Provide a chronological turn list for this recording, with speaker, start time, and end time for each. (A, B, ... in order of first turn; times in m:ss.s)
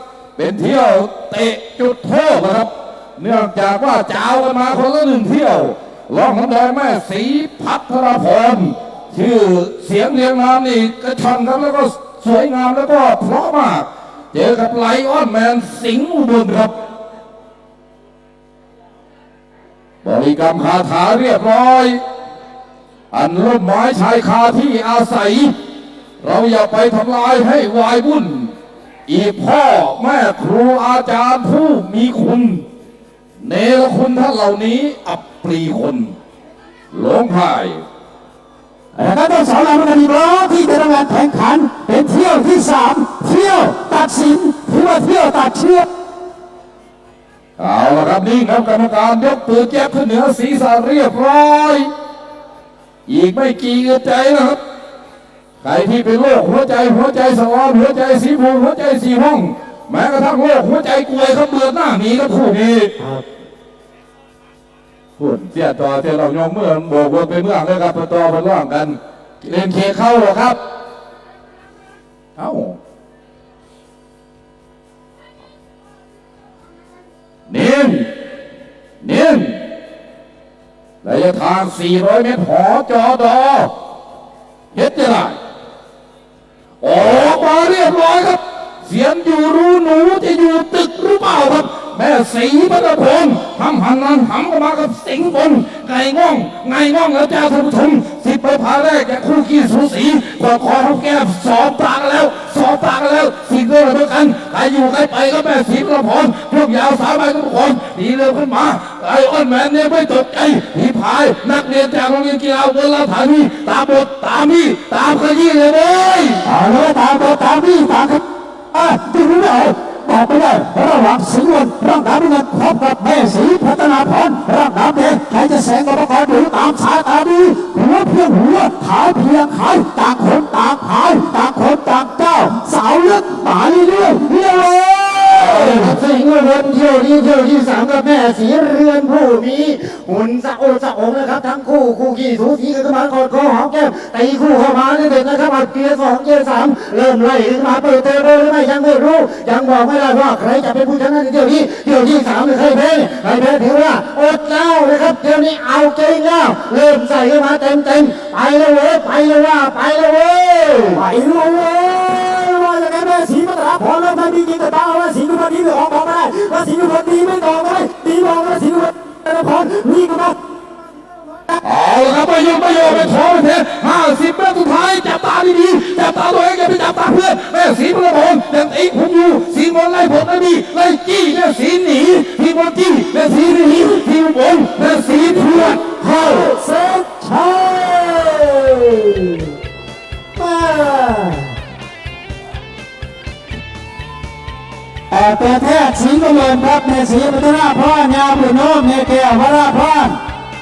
0:00.4-0:16.7 A
0:20.0-0:22.0 A
0:23.1-0:25.5 A
0:26.2-0:28.5 A
0:29.1-0:32.6 A
0:33.4-0:36.1 A
0:36.9-0:37.8 A
0:39.0-0:45.9 B
0:47.6-0:51.9 A
0:53.1-0:54.6 A
0:55.6-1:03.0 A
1:05.2-1:10.6 A
1:12.4-1:12.8 A
1:17.5-1:18.1 A
1:19.0-1:19.7 A
1:21.0-1:23.8 A
1:24.7-1:25.4 A
1:26.8-1:56.4 A
1:56.4-2:15.9 B
2:15.4-2:41.0 C
2:41.0-2:50.4 B
2:51.6-3:05.8 A
3:05.6-3:09.5 B
3:10.4-3:11.5 B
3:15.1-3:20.2 B